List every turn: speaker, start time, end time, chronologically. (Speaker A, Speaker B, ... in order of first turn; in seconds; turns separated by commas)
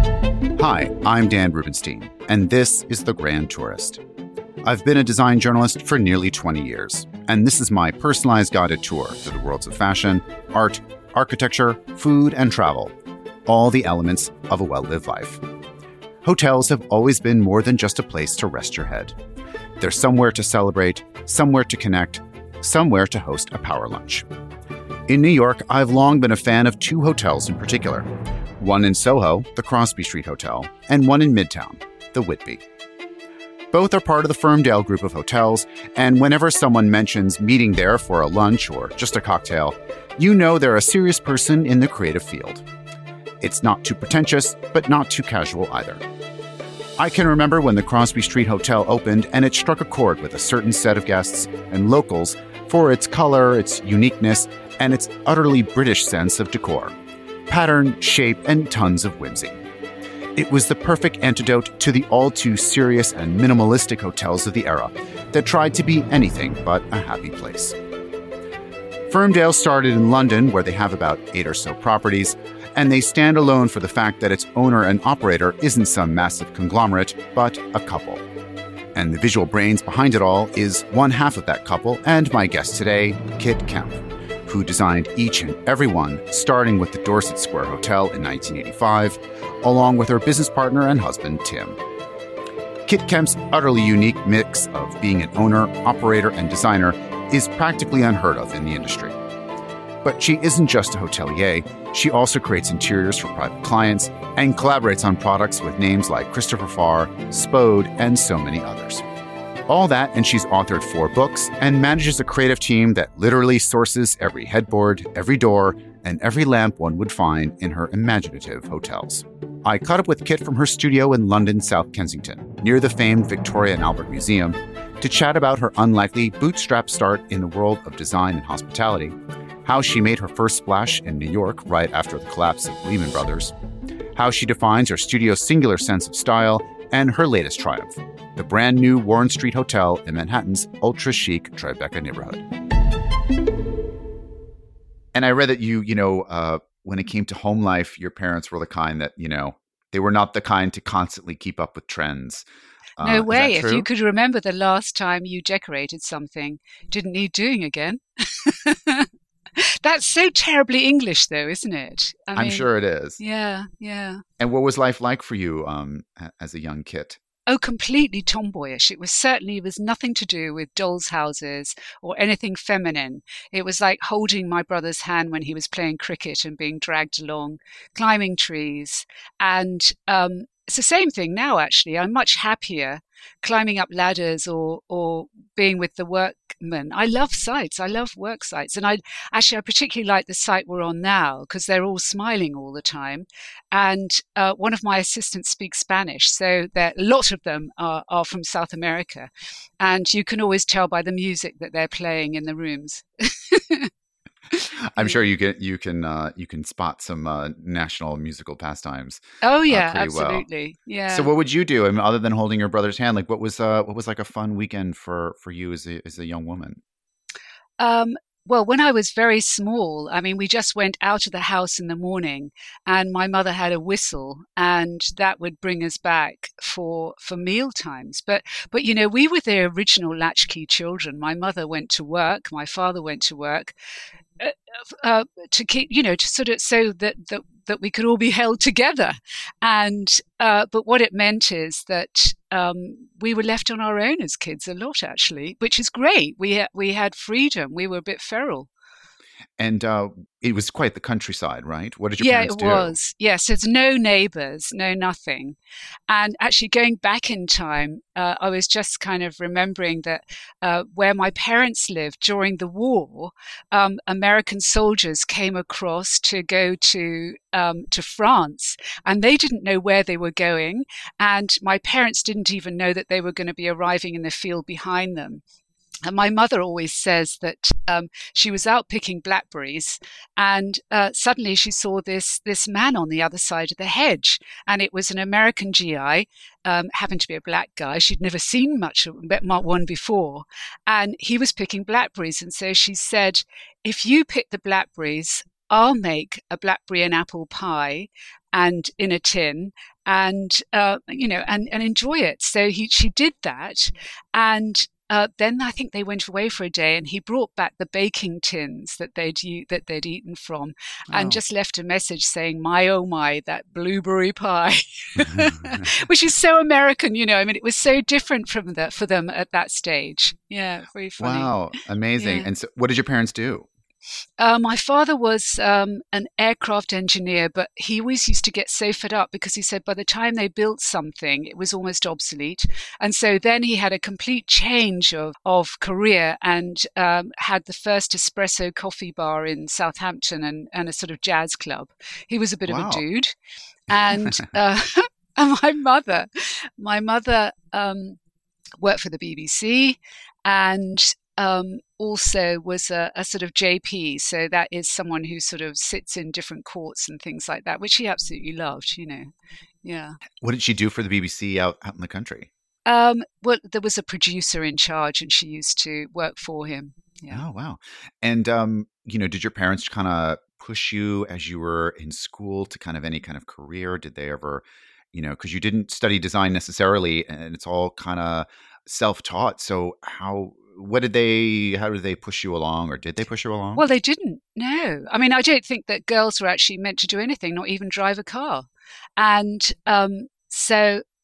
Speaker A: 0.6-4.0, Speaker A: 4.6-12.9, Speaker A: 13.5-15.4, Speaker A: 16.2-19.1, Speaker A: 19.8-24.3, Speaker A: 25.1-28.1, Speaker A: 28.6-32.6, Speaker A: 33.7-42.6, Speaker A: 43.4-46.0, Speaker A: 47.0-56.9, Speaker A: 57.5-59.6, Speaker A: 60.4-67.8, Speaker A: 69.1-78.2, Speaker A: 79.0-91.8, Speaker A: 92.9-99.2, Speaker A: 100.0-109.0, Speaker A: 109.7-133.5, Speaker A: 134.2-142.4, Speaker A: 145.1-152.4, Speaker A: 153.0-153.9, Speaker B: 153.0-162.7, Speaker A: 162.4-163.2, Speaker B: 163.2-164.2, Speaker A: 164.4-167.2, Speaker B: 167.5-199.3, Speaker B: 199.8-203.9, Speaker B: 204.5-205.2, Speaker A: 204.8-210.5, Speaker B: 209.4-211.3, Speaker A: 211.1-216.8, Speaker B: 217.8-233.7, Speaker B: 234.4-248.7, Speaker A: 249.6-252.9, Speaker B: 252.2-255.6, Speaker B: 256.1-275.4, Speaker B: 276.1-321.5, Speaker A: 311.1-311.4, Speaker A: 315.2-315.9, Speaker A: 321.2-323.7, Speaker B: 322.2-322.5, Speaker B: 324.4-343.4, Speaker A: 342.7-343.0, Speaker B: 343.9-348.2, Speaker A: 344.1-344.4, Speaker B: 348.8-359.3, Speaker B: 359.8-360.2, Speaker A: 360.4-362.5, Speaker B: 362.9-367.4, Speaker A: 367.3-383.8, Speaker B: 383.8-391.0